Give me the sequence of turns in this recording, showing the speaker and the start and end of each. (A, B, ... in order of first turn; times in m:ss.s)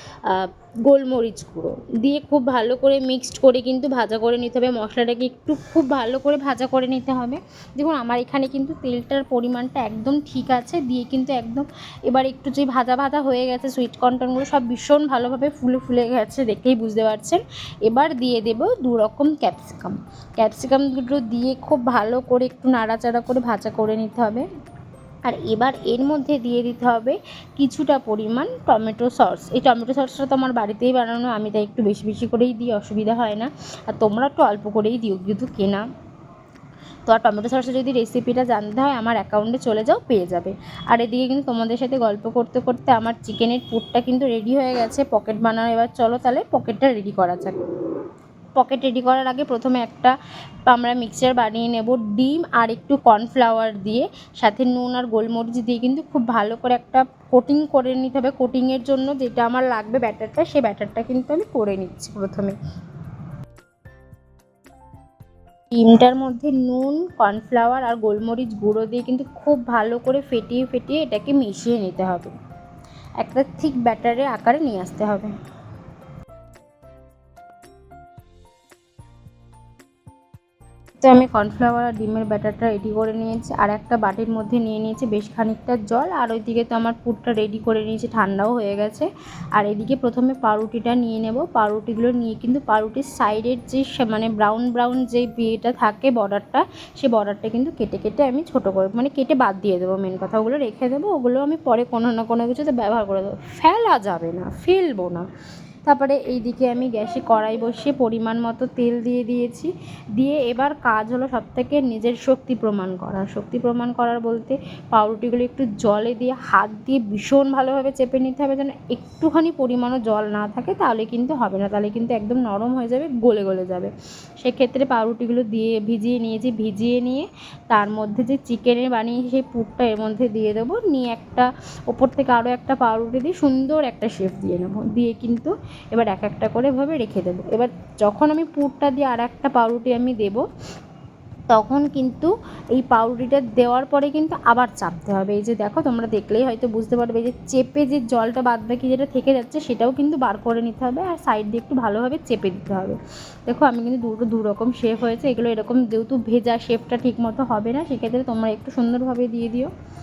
0:00.3-0:24.5 A
0:25.3-0:35.8 A
0:37.1-0:47.6 A
0:48.6-0:50.1 A
0:50.7-1:02.6 A
1:05.7-1:12.3 A
1:13.2-1:15.3 A
1:21.0-1:45.2 A
1:45.9-2:20.4 A
2:21.5-2:33.0 A
2:33.5-2:39.7 A